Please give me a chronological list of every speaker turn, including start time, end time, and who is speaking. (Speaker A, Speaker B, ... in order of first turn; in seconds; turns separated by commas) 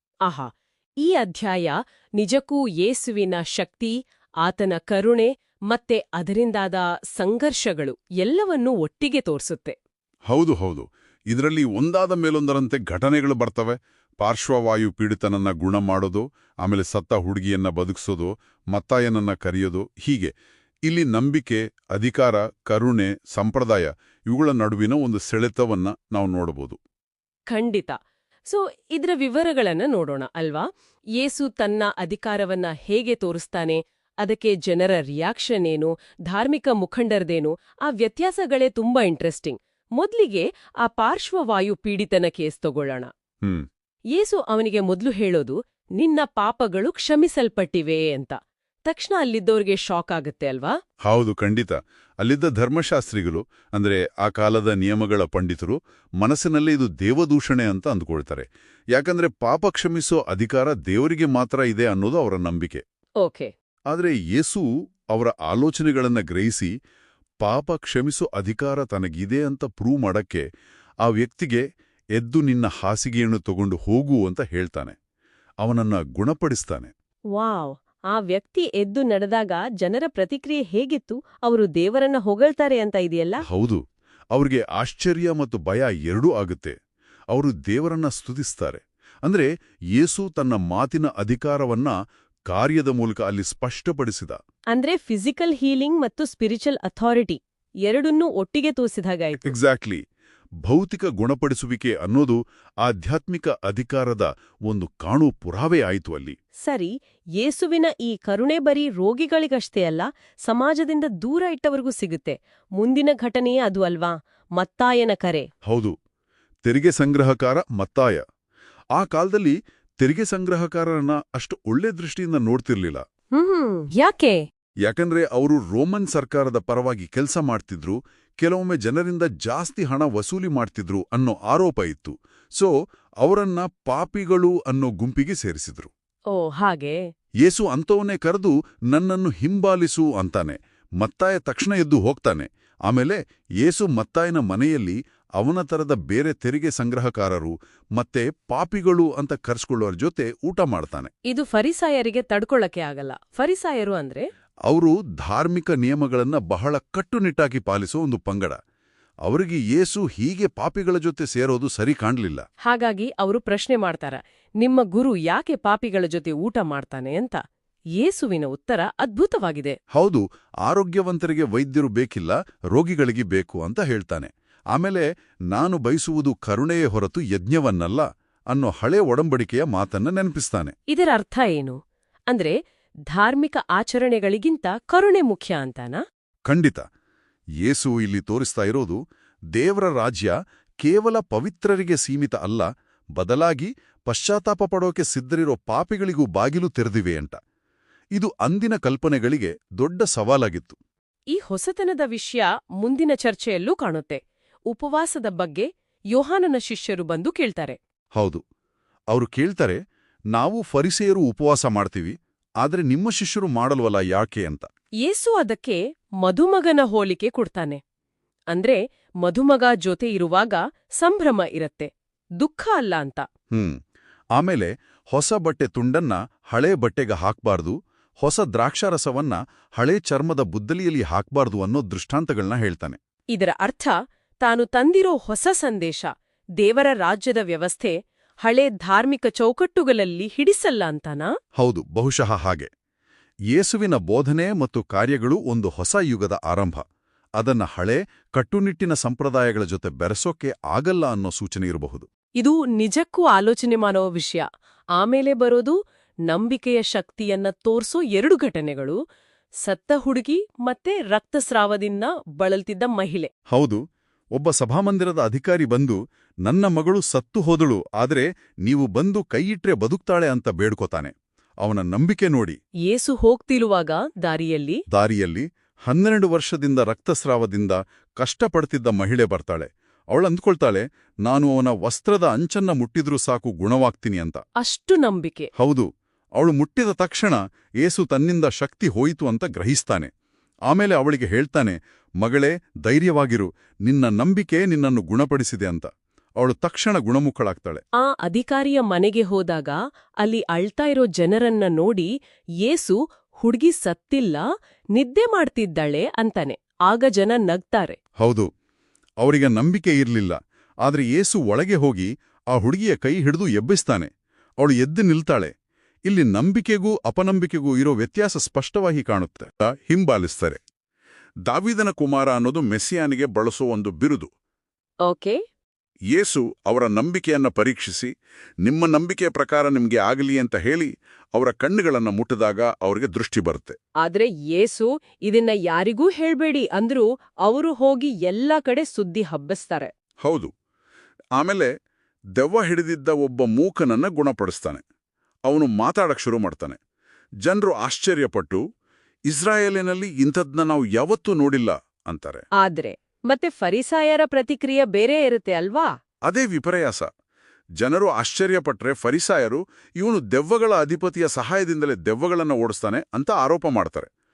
Speaker A: 1.0-3.9, Speaker A: 4.4-9.8, Speaker B: 10.3-20.3, Speaker B: 20.9-26.8, Speaker A: 27.5-27.9, Speaker A: 28.5-30.6, Speaker A: 31.2-43.1, Speaker A: 44.1-50.7, Speaker B: 51.0-62.8, Speaker A: 63.2-63.5, Speaker B: 63.9-66.7, Speaker B: 67.4-70.4, Speaker B: 71.0-71.6, Speaker B: 72.1-75.0, Speaker B: 75.6-76.9, Speaker A: 77.3-83.4, Speaker B: 83.5-83.8, Speaker B: 84.3-86.7, Speaker B: 87.3-91.9, Speaker B: 92.5-94.4, Speaker A: 94.7-99.5, Speaker B: 99.4-100.0, Speaker B: 100.6-106.3, Speaker A: 106.6-115.5, Speaker B: 115.6-115.9, Speaker B: 116.6-118.2, Speaker B: 118.9-123.0, Speaker A: 123.3-124.4, Speaker B: 124.8-135.9, Speaker A: 136.3-137.0, Speaker B: 137.4-151.1, Speaker A: 151.3-154.2, Speaker B: 154.7-158.6, Speaker B: 159.2-162.4, Speaker A: 162.7-167.4, Speaker A: 168.0-169.8, Speaker B: 169.9-180.7, Speaker A: 180.9-181.8, Speaker A: 183.1-186.0, Speaker B: 186.4-186.8, Speaker B: 187.6-189.0, Speaker B: 189.5-197.3, Speaker B: 198.1-200.8, Speaker A: 201.3-204.2, Speaker A: 204.7-207.8, Speaker B: 208.2-208.4, Speaker B: 209.1-209.8, Speaker B: 210.3-214.7, Speaker A: 215.0-217.8, Speaker A: 218.5-221.9, Speaker A: 222.4-223.2, Speaker B: 224.3-233.0, Speaker A: 233.3-236.1, Speaker A: 236.6-241.3, Speaker B: 241.6-242.7, Speaker B: 243.5-246.8, Speaker B: 247.4-252.1, Speaker A: 252.4-254.4, Speaker A: 255.0-255.7, Speaker A: 256.3-259.0, Speaker A: 259.6-263.3, Speaker B: 263.5-263.8, Speaker B: 264.3-272.6, Speaker A: 272.9-274.8, Speaker B: 274.9-284.4, Speaker A: 284.6-285.5, Speaker B: 285.6-285.9, Speaker B: 286.4-290.1, Speaker B: 290.7-297.8, Speaker A: 298.0-302.1, Speaker A: 302.6-304.4, Speaker A: 304.9-308.0, Speaker B: 308.2-308.4, Speaker B: 309.2-314.1, Speaker B: 314.6-315.5, Speaker B: 316.1-320.6, Speaker B: 321.4-324.3, Speaker A: 325.0-325.4, Speaker B: 326.1-328.1, Speaker B: 328.6-333.8, Speaker A: 334.0-339.9, Speaker B: 340.2-340.5, Speaker B: 341.4-341.7, Speaker B: 342.3-344.8, Speaker B: 345.5-346.8, Speaker B: 347.4-348.6, Speaker B: 349.3-352.4, Speaker A: 352.6-355.9, Speaker B: 356.2-357.1, Speaker B: 357.8-364.1